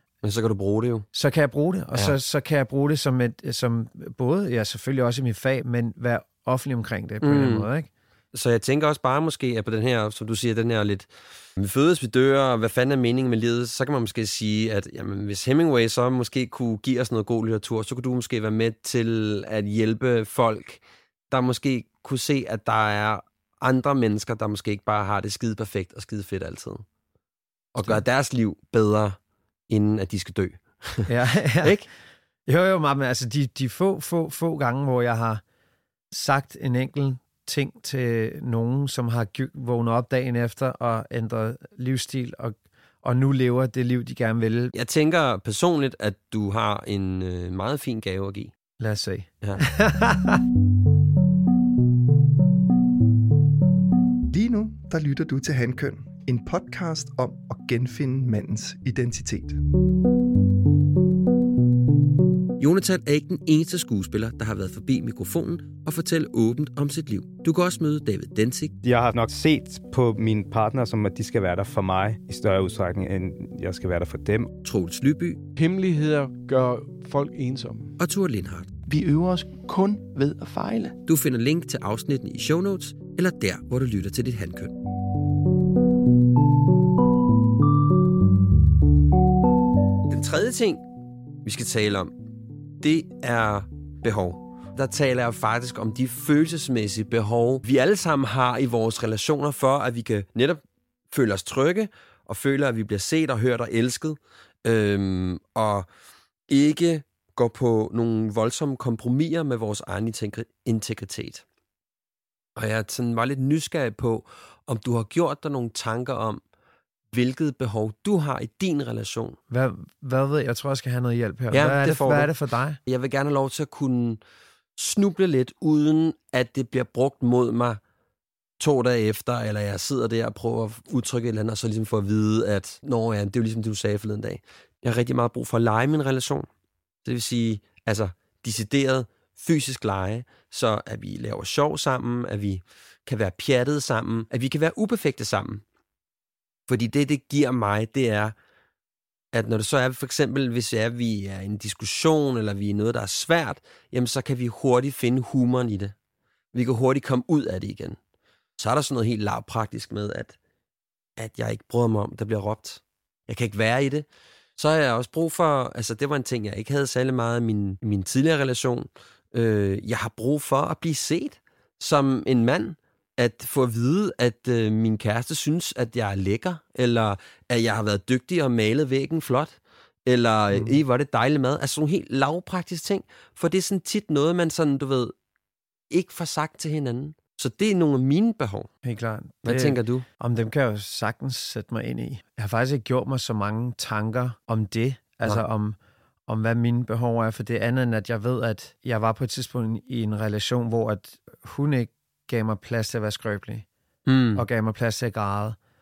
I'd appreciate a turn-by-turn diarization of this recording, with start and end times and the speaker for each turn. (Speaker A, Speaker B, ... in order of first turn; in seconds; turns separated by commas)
Speaker A: 0.2-1.1, Speaker B: 1.1-7.9, Speaker A: 7.2-7.7, Speaker A: 8.3-26.8, Speaker A: 27.7-29.2, Speaker A: 29.7-31.1, Speaker B: 31.1-31.8, Speaker A: 31.6-31.9, Speaker B: 32.5-35.4, Speaker B: 36.1-44.7, Speaker A: 44.7-48.5, Speaker B: 48.8-50.4, Speaker C: 54.3-59.6, Speaker A: 62.6-68.8, Speaker D: 68.8-74.5, Speaker A: 74.6-75.5, Speaker E: 75.5-78.0, Speaker A: 78.0-78.7, Speaker E: 78.9-81.0, Speaker A: 81.0-84.8, Speaker A: 90.1-90.8, Speaker A: 91.4-92.1, Speaker A: 92.8-105.9, Speaker A: 106.5-111.4, Speaker A: 112.6-116.4, Speaker A: 117.1-119.4, Speaker B: 119.5-122.8, Speaker A: 121.5-122.3, Speaker A: 122.8-124.2, Speaker A: 124.8-127.8, Speaker A: 128.6-136.5, Speaker A: 137.0-145.6, Speaker A: 146.7-148.4, Speaker A: 149.3-155.9, Speaker A: 156.5-158.0, Speaker A: 158.6-160.4, Speaker A: 161.2-185.1, Speaker A: 185.9-188.7, Speaker B: 188.8-203.7, Speaker A: 189.4-190.1, Speaker A: 204.1-204.4, Speaker B: 204.3-205.6